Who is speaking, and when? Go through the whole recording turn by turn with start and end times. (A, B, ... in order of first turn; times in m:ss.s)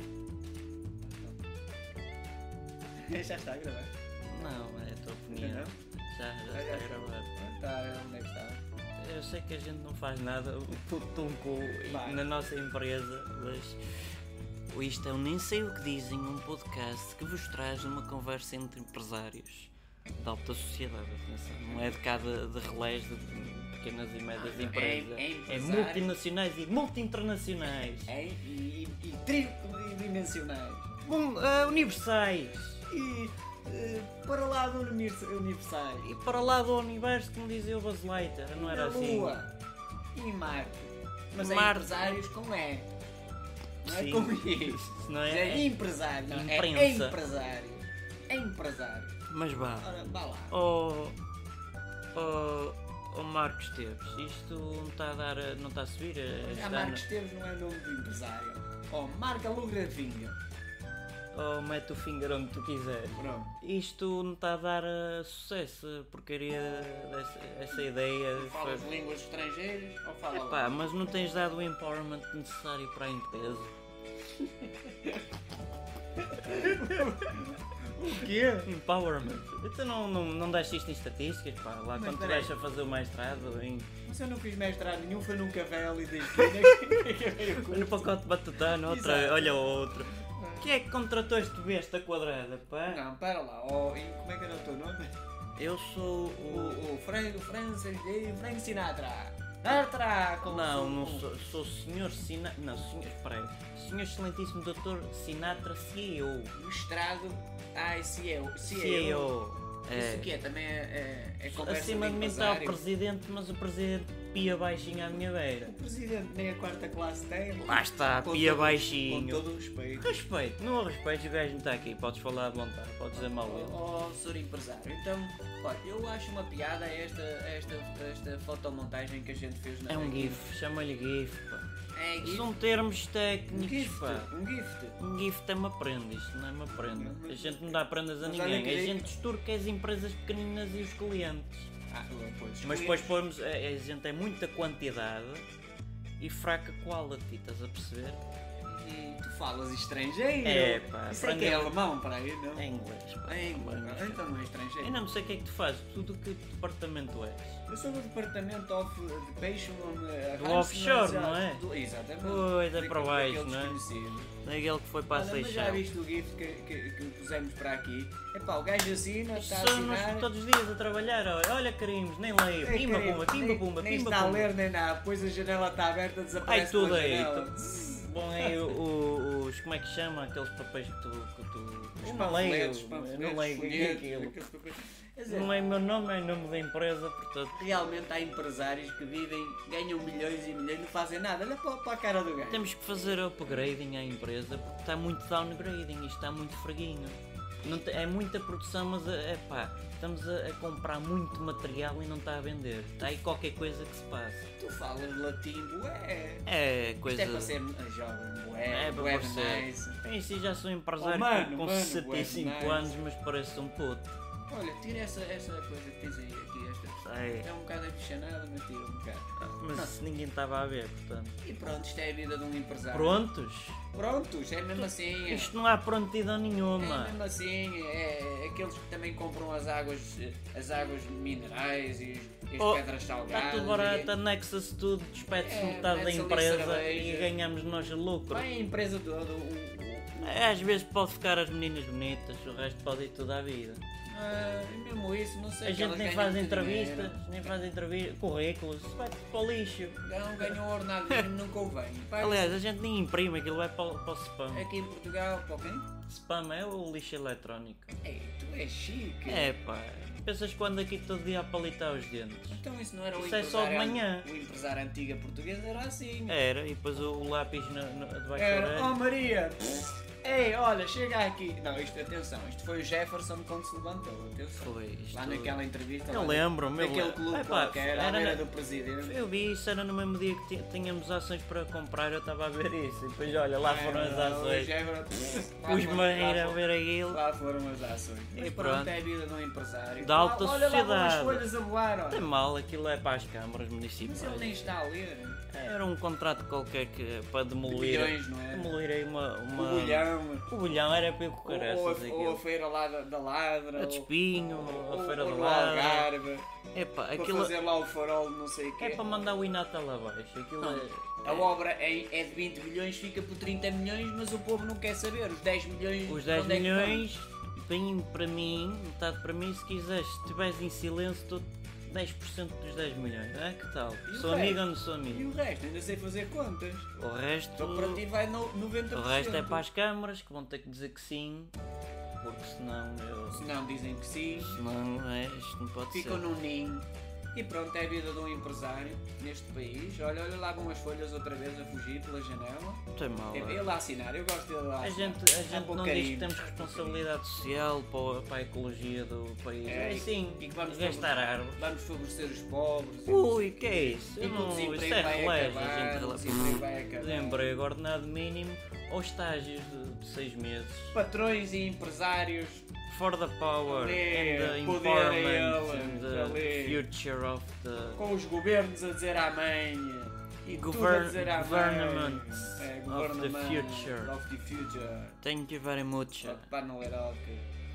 0:03.0-0:04.5 A
0:04.2-0:07.3 B
0:05.3-0:05.7 A
0:06.5-0:08.6 A
0:09.0-0:13.8 B
0:11.8-0:12.2 A
0:14.7-0:28.1 B
0:21.5-0:22.0 A
0:24.4-0:26.1 A
0:28.0-0:30.9 A
0:31.0-0:32.8 B
0:32.9-0:36.1 A
0:36.0-0:39.4 B
0:38.5-0:39.5 A
0:40.1-0:42.9 A
0:41.3-0:42.2 B
0:43.8-0:49.2 A
0:43.8-0:45.7 B
0:46.3-0:47.2 B
0:49.3-0:49.9 B
0:49.7-0:50.6 A
0:50.5-0:51.2 B
0:52.1-0:57.0 B
0:56.4-1:00.4 A
1:01.3-1:08.9 B
1:03.1-1:03.6 A
1:08.3-1:10.9 A
1:10.3-1:13.7 B
1:14.8-1:15.2 A
1:16.2-1:18.7 A
1:18.6-1:23.9 B
1:21.9-1:22.5 A
1:24.0-1:28.2 A
1:27.5-1:33.0 B
1:28.8-1:30.7 A
1:32.9-1:35.1 A
1:35.6-1:36.8 B
1:36.4-1:41.3 A
1:40.4-1:46.5 B
1:46.5-1:49.4 A
1:48.6-1:50.3 B
1:49.9-1:52.8 A
1:51.5-1:55.7 B
1:55.6-2:00.2 A
1:57.6-1:59.4 B
2:00.0-2:03.8 B
2:03.2-2:10.4 A
2:09.9-2:11.6 B
2:11.9-2:12.5 A
2:12.2-2:14.3 B
2:13.5-2:15.0 A
2:15.0-2:21.7 B
2:16.9-2:19.1 A
2:21.9-2:23.2 A
2:22.6-2:25.5 B
2:26.2-2:28.2 B
2:28.6-2:32.6 A
2:30.4-2:31.8 B
2:32.5-2:34.2 B
2:33.2-2:35.0 A
2:34.8-2:37.6 B
2:37.7-2:44.3 A
2:40.4-2:41.6 B
2:42.2-2:43.8 B
2:44.4-2:45.8 B
2:45.1-2:50.3 A
2:49.3-2:54.5 B
2:52.6-2:58.7 A
2:56.4-2:57.5 B
2:58.0-3:04.3 B
3:02.0-3:05.5 A
3:05.3-3:07.6 B
3:07.6-3:12.7 A
3:12.5-3:24.5 B
3:24.6-3:26.5 A
3:26.4-3:27.6 B
3:27.0-3:30.0 A
3:28.7-3:34.2 B
3:31.0-3:33.0 A
3:34.5-3:40.0 A
3:37.0-3:37.5 B
3:39.4-3:41.4 B
3:41.4-3:43.2 A
3:42.9-3:43.8 B
3:43.9-3:45.5 A
3:44.7-3:47.2 B
3:46.8-3:54.1 A
3:52.6-3:58.4 B
3:55.3-3:57.3 A
3:58.3-4:00.6 A
4:00.2-4:03.8 B
4:04.1-4:07.5 A
4:05.6-4:11.3 B
4:10.0-4:12.6 A
4:12.2-4:14.7 B
4:14.5-4:15.9 A
4:16.0-4:17.9 B
4:18.0-4:19.5 A
4:19.3-4:22.6 B
4:22.5-4:26.4 A
4:23.2-4:24.3 B
4:26.3-4:29.0 B
4:28.3-4:39.2 A
4:34.6-4:38.4 B
4:39.0-4:44.7 B
4:43.6-4:52.2 A
4:45.6-4:47.2 B
4:48.3-4:48.9 B
4:50.0-4:51.5 B
4:52.1-4:54.6 B
4:54.0-4:55.4 A
4:55.5-5:02.4 B
4:57.6-4:58.7 A
4:59.5-5:00.5 A
5:01.4-5:06.5 A
5:03.8-5:06.1 B
5:06.7-5:07.5 B
5:07.1-5:09.0 A
5:08.8-5:11.5 B
5:10.6-5:17.1 A
5:16.1-5:25.3 B
5:24.0-5:26.9 A
5:27.0-5:28.0 B
5:27.6-5:29.6 A
5:28.9-5:31.5 B
5:32.2-5:33.5 B
5:33.3-5:34.6 A
5:34.4-5:36.2 B
5:35.9-5:47.0 A
5:42.9-5:43.8 B
5:44.8-5:51.7 B
5:49.6-5:57.5 A
5:53.0-6:01.0 B
6:00.9-6:02.7 A
6:02.9-6:08.0 B
6:03.6-6:06.8 A
6:07.9-6:15.2 A
6:10.6-6:14.1 B
6:15.2-6:16.5 B
6:16.2-6:17.5 A